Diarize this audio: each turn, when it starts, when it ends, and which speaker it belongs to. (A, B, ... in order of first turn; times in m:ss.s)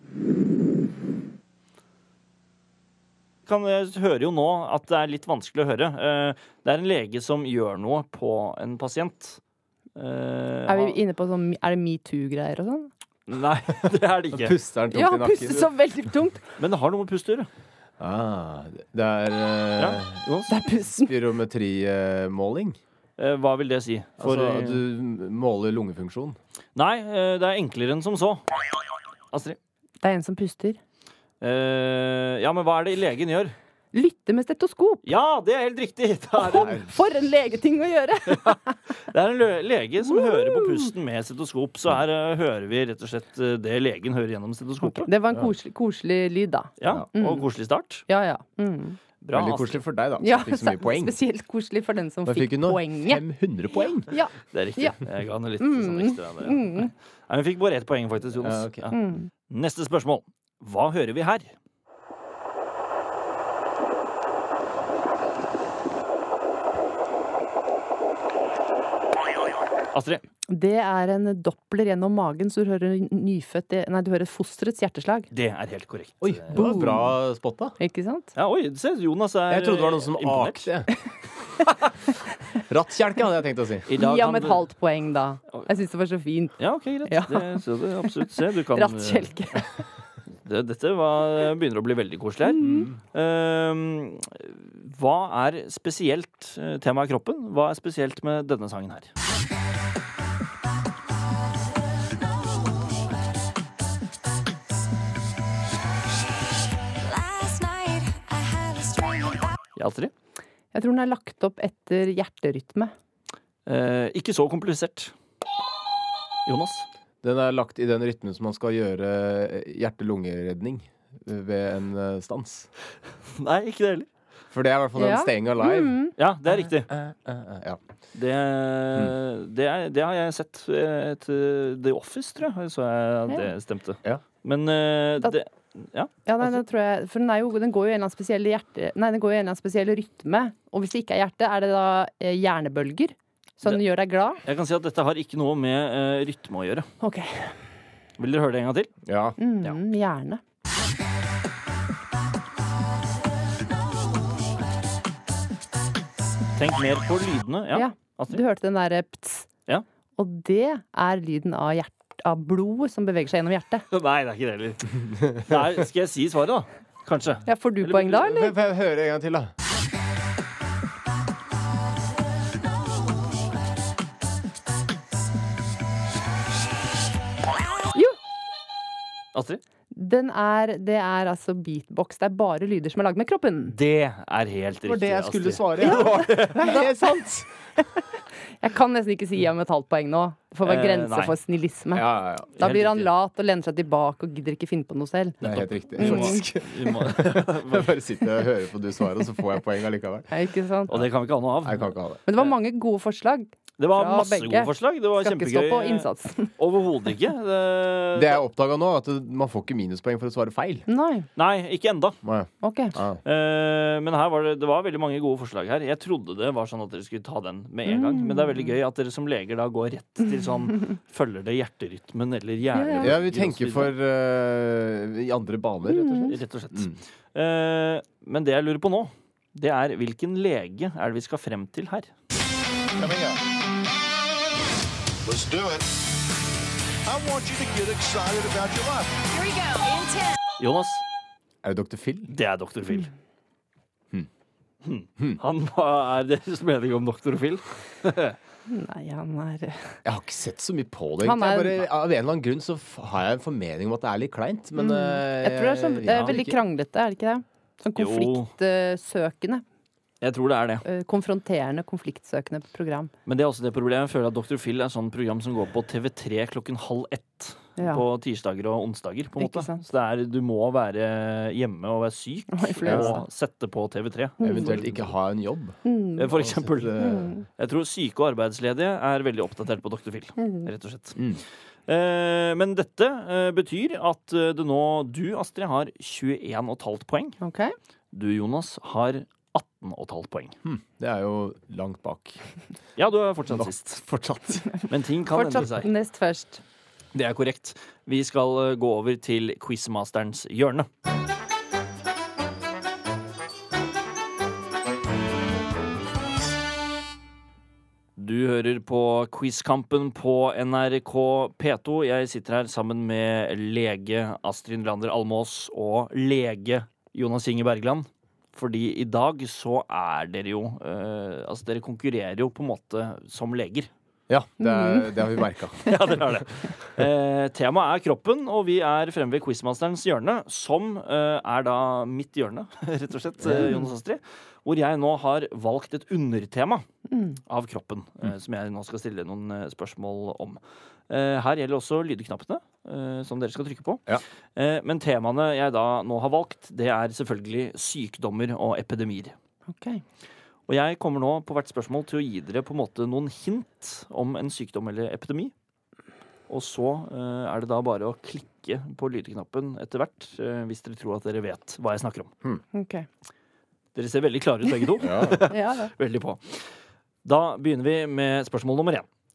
0:03.5-0:09.4 A
0:10.0-0:11.0 A
0:10.7-0:12.9 B
0:13.3-0:14.6 A
0:14.3-0:15.7 C
0:14.9-0:16.4 B
0:16.6-0:17.5 A
0:18.0-0:20.2 C
0:19.8-0:20.5 A
0:20.5-0:21.1 B
0:20.9-0:22.8 C
0:23.2-0:24.8 A
0:24.2-0:26.4 C
0:26.8-0:28.4 A
0:29.3-0:29.6 A
0:30.0-0:30.8 B
0:31.4-0:33.5 A
0:33.9-0:35.0 B
0:35.0-0:36.8 A
0:36.4-0:38.8 B
0:36.5-0:36.9 C
0:38.3-0:45.1 A
0:40.0-0:40.9 B
0:44.8-0:47.5 B
0:46.8-0:48.0 A
0:48.1-0:49.0 B
0:49.2-0:49.8 A
0:49.3-0:51.1 C
0:50.2-0:53.2 B
0:52.2-0:54.1 C
0:54.1-0:55.0 B
0:54.5-0:59.0 A
0:55.6-0:56.9 B
0:58.4-0:58.9 C
0:58.9-0:59.3 B
0:59.5-1:01.5 A
1:09.9-1:10.2 A
1:10.5-1:15.3 B
1:15.3-1:16.7 A
1:16.2-1:17.8 C
1:16.5-1:17.1 B
1:17.8-1:18.3 B
1:18.4-1:20.7 A
1:19.5-1:20.9 C
1:22.6-1:23.9 C
1:23.9-1:24.6 A
1:23.9-1:29.8 B
1:26.6-1:29.6 A
1:30.4-1:39.1 A
1:32.4-1:32.9 B
1:32.6-1:33.0 C
1:47.0-1:49.5 D
1:49.8-1:50.1 A
1:50.7-1:52.9 B
1:53.6-1:55.1 A
1:56.5-1:56.8 A
1:57.2-2:02.7 C
2:03.3-2:04.1 A
2:04.5-2:06.0 C
2:05.0-2:06.1 B
2:06.2-2:06.9 A
2:06.5-2:07.8 C
2:08.1-2:16.5 A
2:16.2-2:24.4 B
2:24.4-2:26.9 A
2:27.0-2:27.6 B
2:28.2-2:29.0 A
2:29.0-2:29.4 C
2:29.4-2:30.4 B
2:36.6-2:38.4 A
2:37.7-2:39.5 B
2:40.2-2:43.8 B
2:43.9-2:48.2 A
2:47.4-2:48.6 B
2:48.1-2:49.5 C
2:59.3-2:59.6 A
2:59.9-3:03.8 B
3:03.7-3:06.8 A
3:04.8-3:07.5 C
3:05.8-3:06.9 B
3:08.6-3:15.4 B
3:10.6-3:11.3 A
3:11.9-3:12.5 C
3:12.6-3:13.1 A
3:15.4-3:17.9 A
3:15.4-3:20.3 C
3:16.0-3:16.4 B
3:20.3-3:20.9 B
3:20.9-3:22.4 A
3:21.6-3:22.2 C
3:22.3-3:26.5 B
3:23.8-3:28.4 A
3:28.1-3:30.8 C
3:30.9-3:31.3 B
3:31.4-3:32.2 A
3:32.2-3:33.2 C
3:32.6-3:33.0 B
3:33.2-3:43.9 A
3:37.9-3:38.7 B
3:42.7-3:43.1 B
3:43.0-3:47.0 C
3:45.9-3:46.4 B
3:46.3-3:52.1 A
3:52.9-3:53.4 E
3:55.2-3:55.9 E
3:57.0-3:59.2 E
3:59.2-4:00.4 D
4:00.6-4:01.0 A
4:01.6-4:02.3 C
4:02.3-4:03.1 A
4:04.8-4:08.4 A
4:08.7-4:10.0 B
4:10.0-4:16.6 C
4:11.2-4:11.8 B
4:14.8-4:19.6 B
4:16.1-4:16.3 A
4:18.0-4:18.5 A
4:20.2-4:20.8 A
4:20.8-4:23.1 B
4:23.2-4:35.1 A
4:27.8-4:28.0 B
4:29.4-4:29.8 B
4:32.5-4:33.2 B
4:32.8-4:33.1 C
4:34.4-4:34.7 B
4:34.4-4:37.3 C
4:35.8-4:36.3 B
4:36.2-4:47.4 A
4:37.0-4:37.4 B
4:40.4-4:40.7 B
4:41.2-4:41.4 C
4:47.4-4:47.7 B
4:48.1-4:50.5 A
4:50.6-4:52.4 C
4:53.0-4:54.0 A
4:53.5-4:54.7 C
4:54.9-4:55.9 A
4:55.3-4:56.6 B
4:57.1-5:00.9 A
5:08.2-5:23.9 A
5:24.3-5:26.2 C
5:24.6-5:25.2 B
5:25.8-5:36.8 A
5:33.4-5:33.7 C
5:33.6-5:33.9 B
5:37.1-5:37.4 B
5:37.5-5:44.0 A
5:44.6-5:49.3 A
5:49.7-5:50.0 B
5:50.7-5:55.5 A
5:56.5-6:02.3 A
6:02.7-6:03.1 B
6:03.9-6:06.6 A
6:05.0-6:05.5 C
6:05.5-6:05.9 B
6:07.2-6:09.1 A